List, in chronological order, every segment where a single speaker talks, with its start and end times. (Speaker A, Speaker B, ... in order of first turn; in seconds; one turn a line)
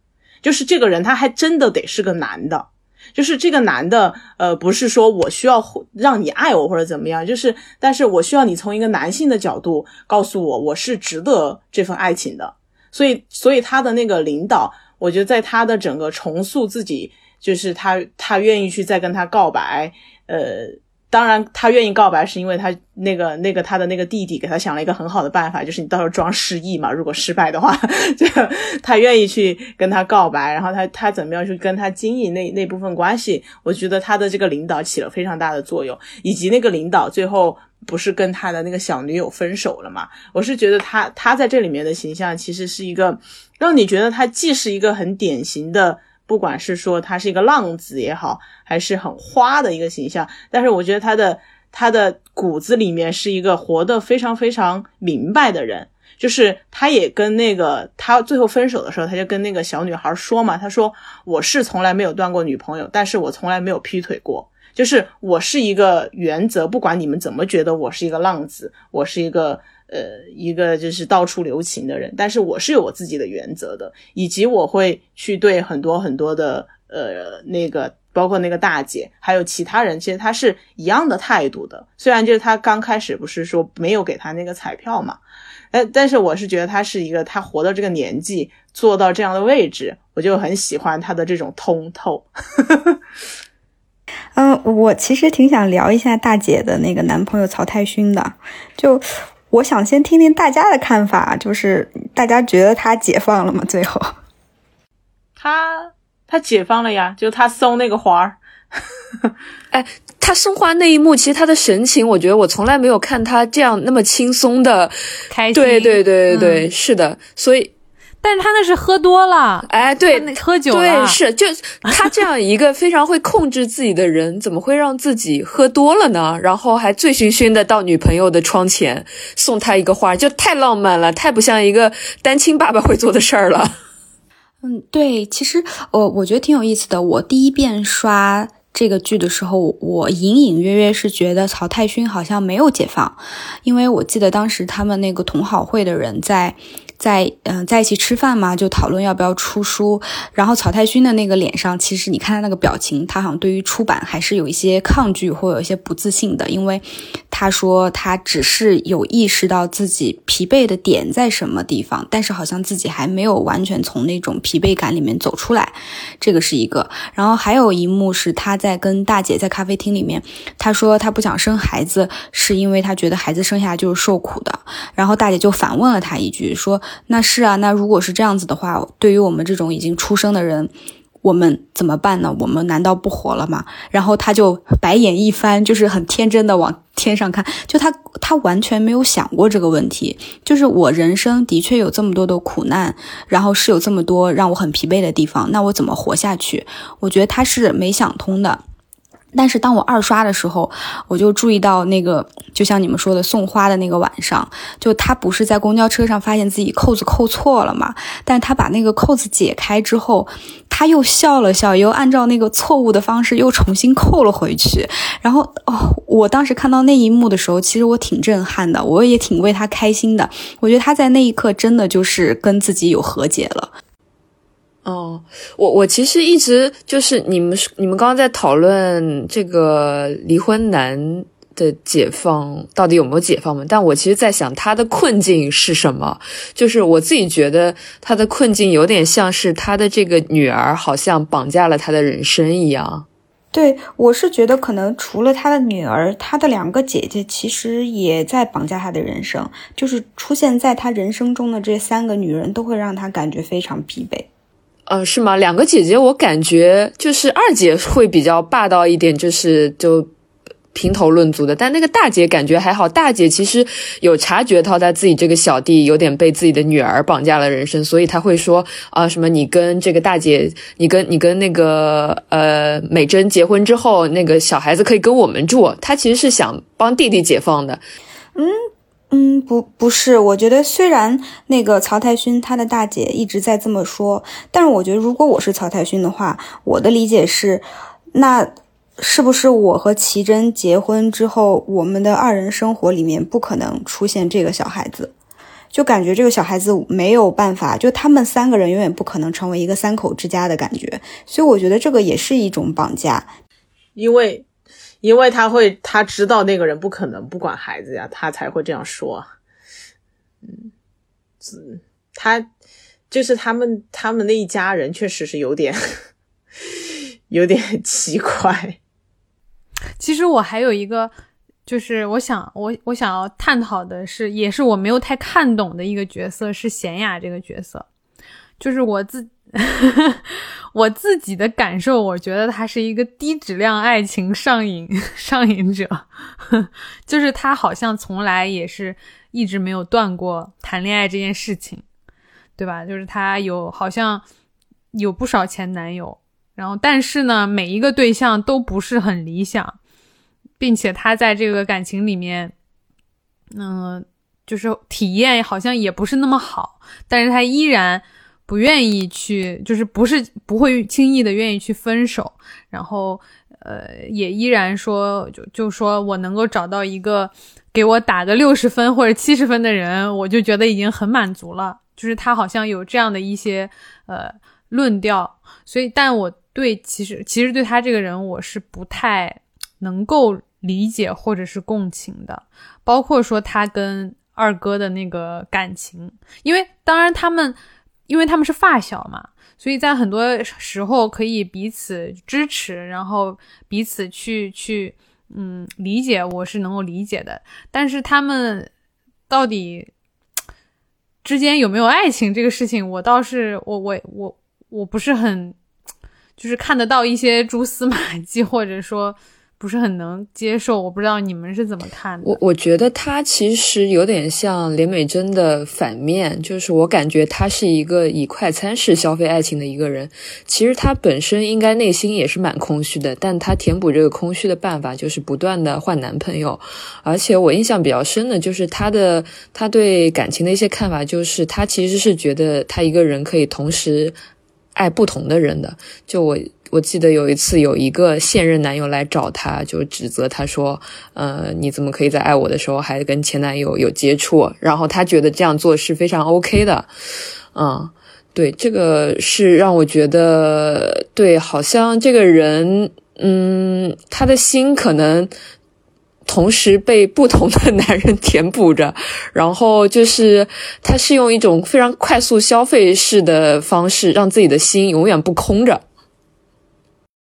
Speaker A: 0.4-85.2
Speaker A: 85.7-93.0
Speaker B: 94.3-104.1
Speaker A: 105.4-109.3
Speaker C: 109.7-114.9
Speaker D: 115.3-116.7
Speaker C: 115.5-117.7
Speaker D: 118.2-121.2
Speaker C: 119.7-133.7
Speaker D: 121.8-122.1
Speaker B: 134.6-180.7
Speaker B: 181.2-198.6
Speaker B: 199.3-223.7
Speaker C: 224.8-243.1
Speaker B: 243.5-254.3
Speaker C: 254.9-260.1
Speaker C: 260.7-277.8
Speaker B: 278.3-295.1
Speaker B: 295.7-303.3
Speaker A: 303.9-304.4
Speaker A: 305.0-309.3
Speaker A: 310.4-310.7
Speaker A: 311.4-312.5
Speaker A: 313.1-316.0
Speaker A: 316.6-318.8
Speaker D: 320.0-321.1
Speaker D: 321.6-327.9
Speaker D: 328.6-341.8
Speaker D: 342.6-344.2
Speaker D: 344.9-349.8
Speaker D: 350.6-352.5
Speaker D: 353.5-387.6
Speaker D: 388.1-398.7
Speaker D: 399.3-399.9
Speaker D: 401.2-405.6
Speaker D: 406.4-412.4
Speaker C: 412.2-434.1
Speaker C: 434.7-446.9
Speaker C: 447.5-455.3
Speaker C: 456.2-465.8